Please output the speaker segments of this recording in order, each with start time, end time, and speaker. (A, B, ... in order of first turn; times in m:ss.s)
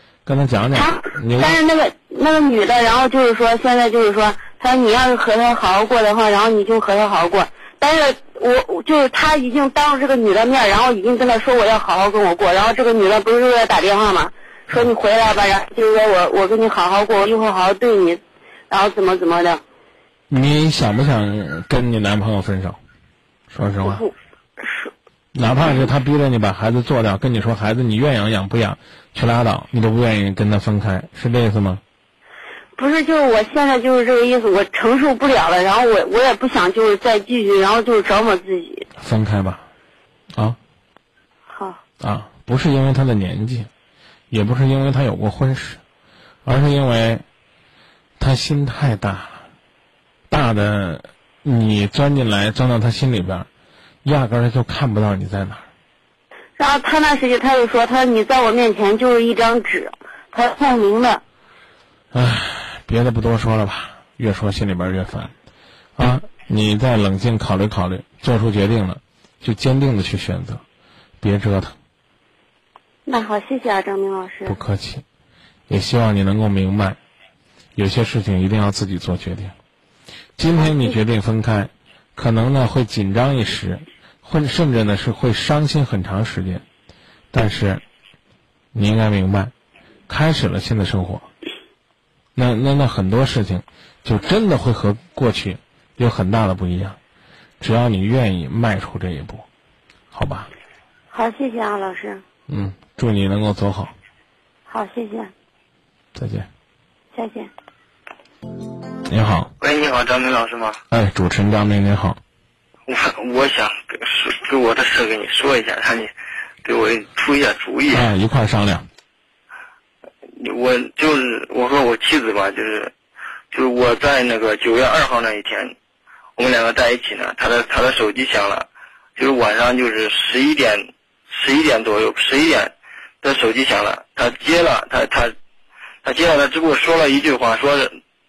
0:00.2-0:01.5 A
0:00.7-0:19.6 B
0:20.3-0:22.8 A
0:23.5-0:24.0 A
0:23.8-0:24.9 B
0:25.3-0:31.8 A
0:32.8-0:38.8 B
0:39.0-0:39.6 A
0:41.5-0:41.8 B
0:42.0-0:43.7 A
0:44.3-0:45.8 A
0:46.4-0:47.2 A
0:48.2-0:49.4 A
0:50.3-0:53.5 A
0:54.0-0:55.6 A
0:56.6-1:01.2 B
1:02.1-1:05.3 A
1:06.0-1:10.6 A
1:11.2-1:11.7 A
1:13.0-1:14.6 B
1:14.4-1:15.0 A
1:15.7-1:17.0 A
1:17.8-1:19.5 A
1:20.4-1:26.6 A
1:20.6-1:20.9 B
1:27.3-1:27.8 A
1:28.7-1:29.5 A
1:30.1-1:31.3 A
1:32.4-1:37.0 A
1:37.6-1:39.4 A
1:40.1-1:40.5 A
1:41.1-1:42.2 B
1:42.5-1:43.9 A
1:44.7-1:45.3 B
1:46.1-1:46.5 A
1:47.1-1:47.5 B
1:49.1-1:49.5 A
1:49.6-1:50.8 C
1:50.9-1:52.2 A
1:52.9-1:56.1 C
1:56.6-1:58.1 C
1:57.9-1:58.9 A
2:00.4-2:02.9 C
2:03.5-2:05.7 C
2:06.4-2:15.3 C
2:16.0-2:17.9 C